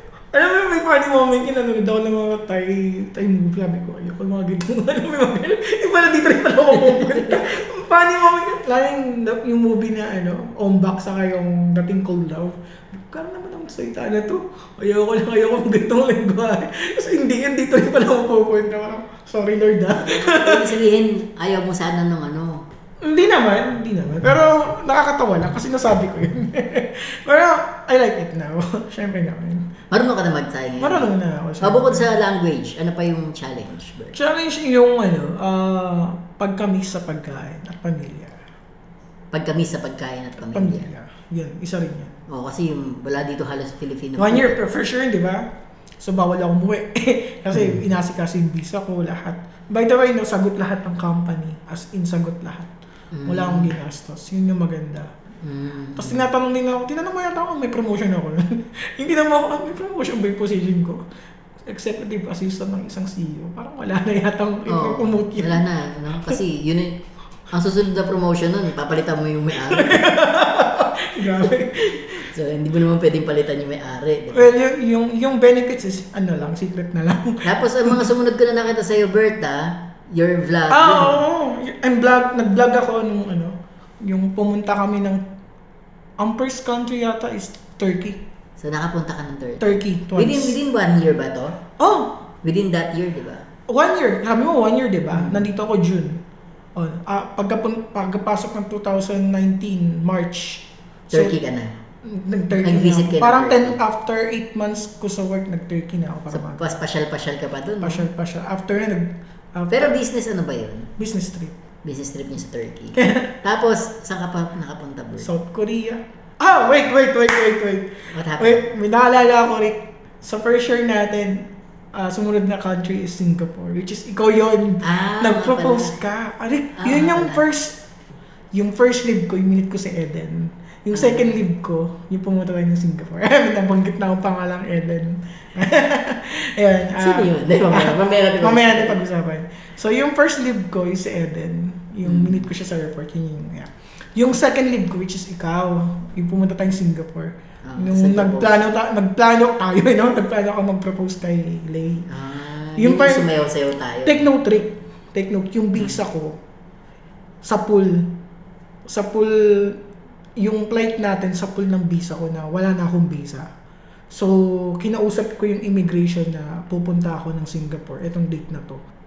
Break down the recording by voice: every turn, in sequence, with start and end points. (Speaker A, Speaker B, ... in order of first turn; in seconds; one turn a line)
Speaker A: 0.3-20.8
Speaker B: 6.8-7.5
Speaker B: 19.9-22.6
Speaker A: 23.0-29.7
Speaker B: 29.9-31.1
Speaker A: 30.8-32.1
Speaker B: 31.6-34.1
Speaker A: 34.1-38.4
Speaker B: 39.3-40.9
Speaker A: 40.4-42.2
Speaker B: 42.3-44.6
Speaker A: 44.2-45.5
Speaker A: 46.0-52.7
Speaker B: 47.5-47.8
Speaker B: 53.1-53.7
Speaker A: 53.2-55.1
Speaker B: 55.4-56.3
Speaker A: 56.0-61.0
Speaker A: 61.6-65.6
Speaker B: 64.7-70.1
Speaker A: 69.6-72.3
Speaker B: 71.8-74.5
Speaker A: 74.3-78.1
Speaker B: 77.4-81.2
Speaker A: 80.7-85.2
Speaker A: 86.2-88.2
Speaker B: 88.6-91.6
Speaker A: 89.6-90.6
Speaker A: 91.8-92.2
Speaker B: 92.4-93.5
Speaker A: 93.7-96.2
Speaker B: 95.1-95.5
Speaker A: 96.8-101.4
Speaker B: 101.1-101.8
Speaker A: 102.0-106.7
Speaker B: 102.5-103.8
Speaker B: 106.3-108.1
Speaker A: 107.8-109.9
Speaker B: 109.7-110.9
Speaker A: 111.0-111.5
Speaker B: 111.8-115.3
Speaker A: 113.0-113.3
Speaker A: 115.2-127.8
Speaker B: 118.1-118.7
Speaker B: 124.8-126.0
Speaker B: 126.8-127.5
Speaker A: 128.5-152.1
Speaker B: 130.9-131.4
Speaker B: 137.0-139.0
Speaker B: 142.1-142.5
Speaker B: 147.7-148.6
Speaker B: 152.1-154.3
Speaker A: 152.8-153.3
Speaker A: 154.0-156.4
Speaker A: 157.4-158.1
Speaker A: 158.9-159.8
Speaker A: 160.4-163.5
Speaker A: 164.1-168.8